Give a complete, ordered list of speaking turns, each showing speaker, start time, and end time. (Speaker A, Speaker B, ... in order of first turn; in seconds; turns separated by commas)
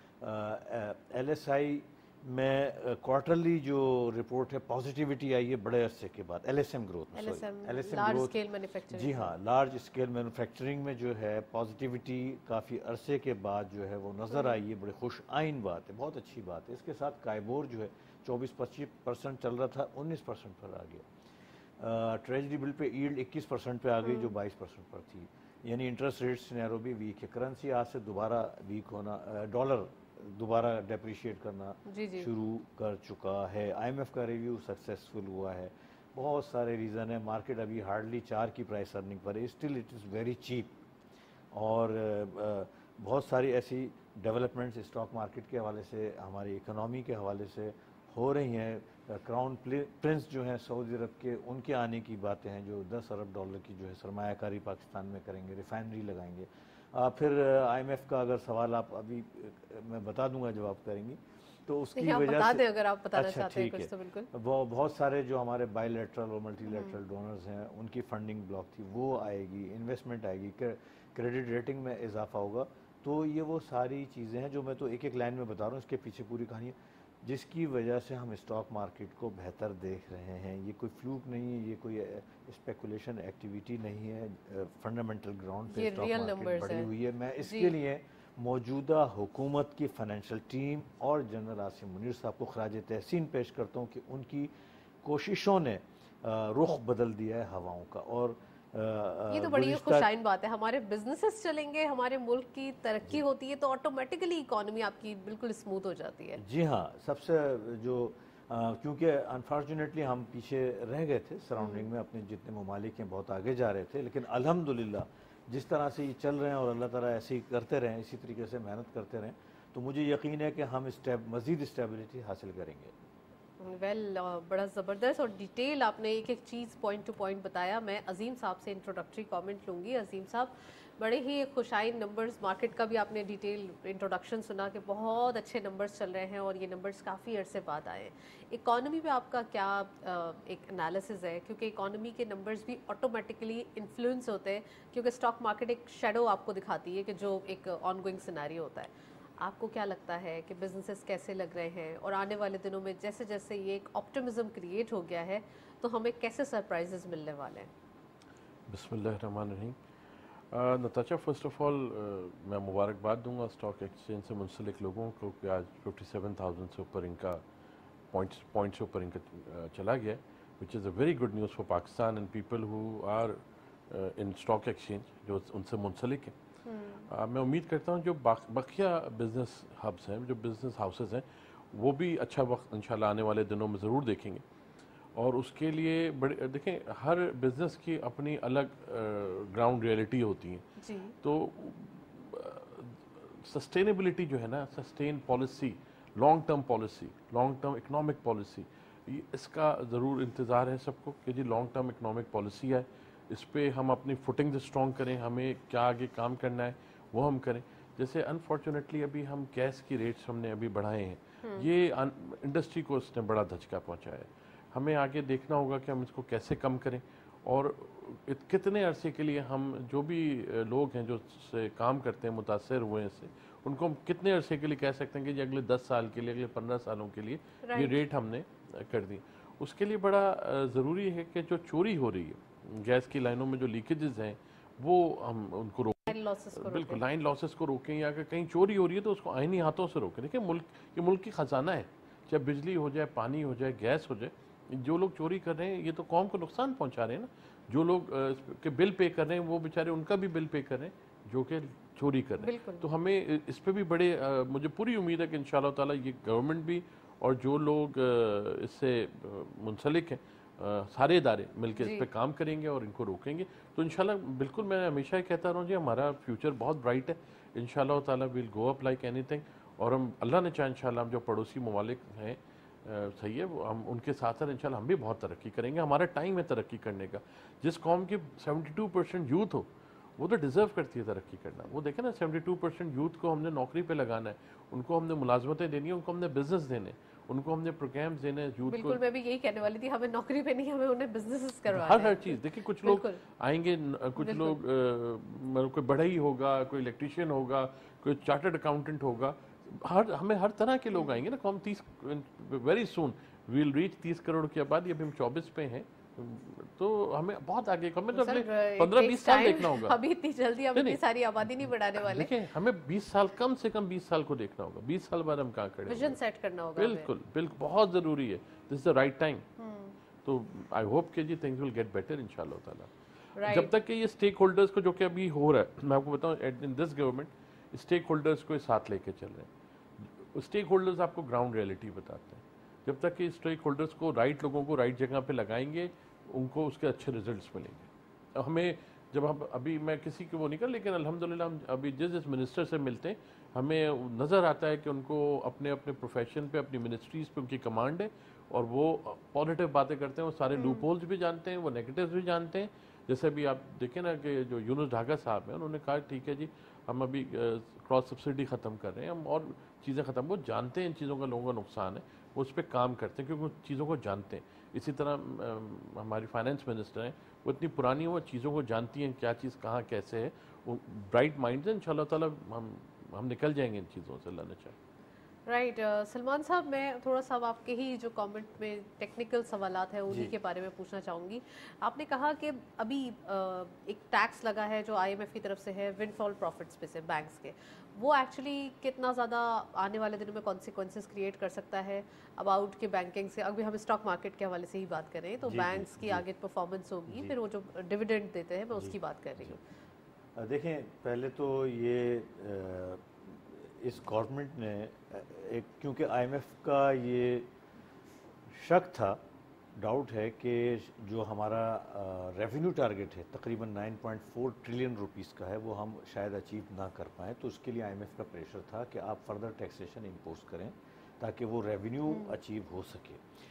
Speaker A: 0.2-8.4, Speaker B: 7.1-9.3, Speaker A: 8.9-21.1, Speaker A: 21.8-40.8, Speaker B: 24.0-24.3, Speaker B: 31.9-32.3, Speaker A: 41.5-62.6, Speaker B: 62.0-64.3, Speaker A: 63.1-94.5, Speaker B: 66.7-66.9, Speaker B: 85.7-86.9, Speaker B: 87.4-87.7, Speaker A: 95.0-100.1, Speaker B: 99.3-106.4, Speaker A: 106.4-122.9, Speaker B: 111.6-111.9, Speaker B: 123.6-157.7, Speaker C: 158.7-159.8, Speaker C: 160.5-167.4, Speaker C: 168.1-176.3, Speaker B: 176.6-177.1, Speaker C: 177.1-184.4, Speaker C: 185.1-190.6, Speaker B: 190.8-191.1, Speaker C: 191.2-289.0, Speaker B: 211.4-211.7, Speaker B: 227.6-228.0, Speaker B: 236.1-237.0, Speaker B: 252.4-252.8, Speaker B: 261.8-262.1, Speaker B: 288.7-293.2, Speaker C: 291.7-310.0, Speaker B: 294.2-294.6, Speaker B: 300.9-301.2, Speaker B: 308.1-312.3, Speaker C: 310.7-311.0, Speaker C: 312.0-316.2, Speaker B: 315.9-317.1, Speaker C: 316.8-319.4, Speaker B: 319.6-319.9, Speaker C: 320.2-322.9, Speaker B: 323.4-323.7, Speaker C: 323.4-374.8, Speaker B: 350.5-350.9, Speaker B: 375.5-399.6, Speaker A: 395.4-396.2, Speaker A: 397.1-397.3, Speaker A: 398.8-399.6, Speaker A: 400.4-407.5, Speaker A: 408.5-409.2, Speaker A: 409.7-423.2, Speaker B: 422.1-422.3